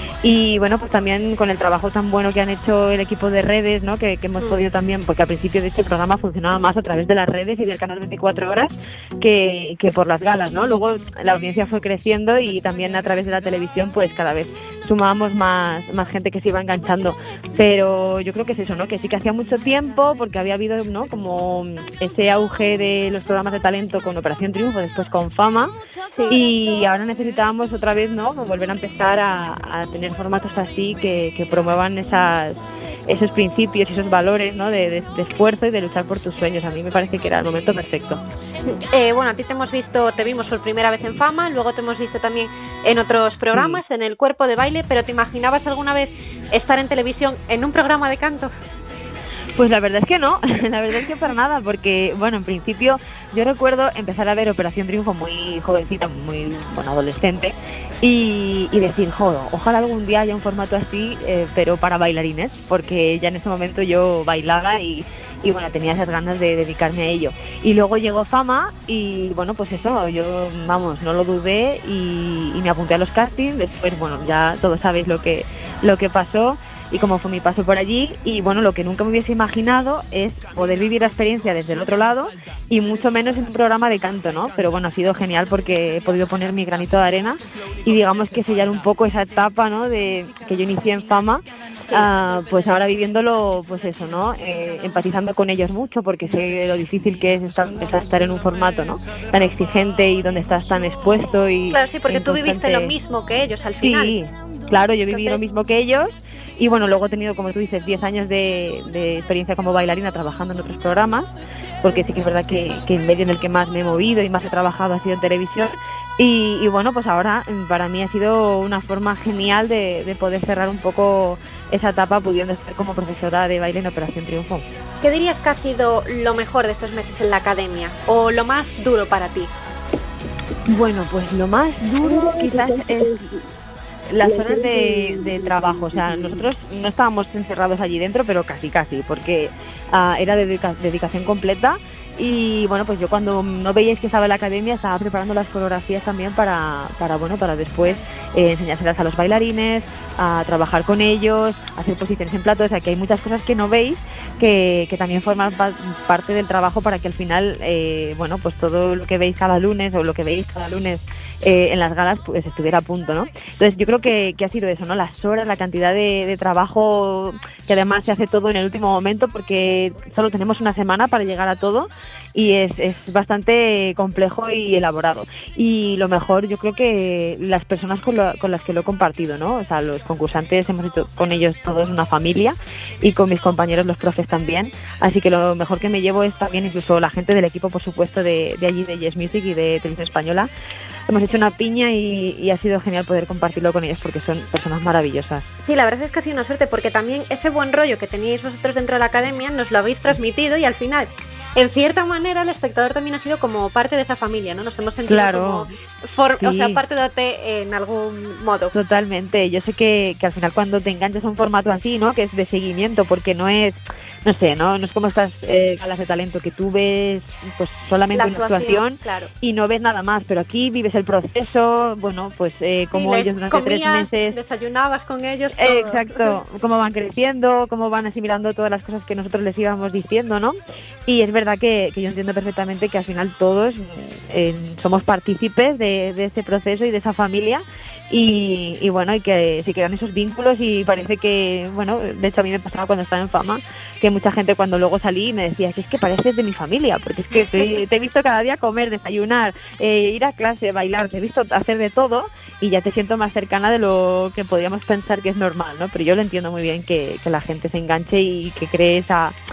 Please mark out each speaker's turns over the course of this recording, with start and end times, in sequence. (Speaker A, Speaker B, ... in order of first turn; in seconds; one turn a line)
Speaker A: 0.2-25.7
Speaker B: 26.1-26.4
Speaker A: 26.3-38.2
Speaker B: 38.7-48.5
Speaker A: 43.5-43.8
Speaker A: 49.5-102.9
Speaker B: 101.7-104.2
Speaker A: 103.8-124.6
Speaker B: 105.1-105.4
Speaker B: 111.9-112.1
Speaker B: 125.0-129.5
Speaker A: 130.6-133.4
Speaker A: 134.1-190.5
Speaker A: 191.1-195.5
Speaker B: 195.7-208.7
Speaker A: 205.1-205.7
Speaker A: 206.4-206.8
Speaker A: 208.7-224.4
Speaker B: 218.1-219.3
Speaker B: 222.9-226.4
Speaker A: 225.5-259.4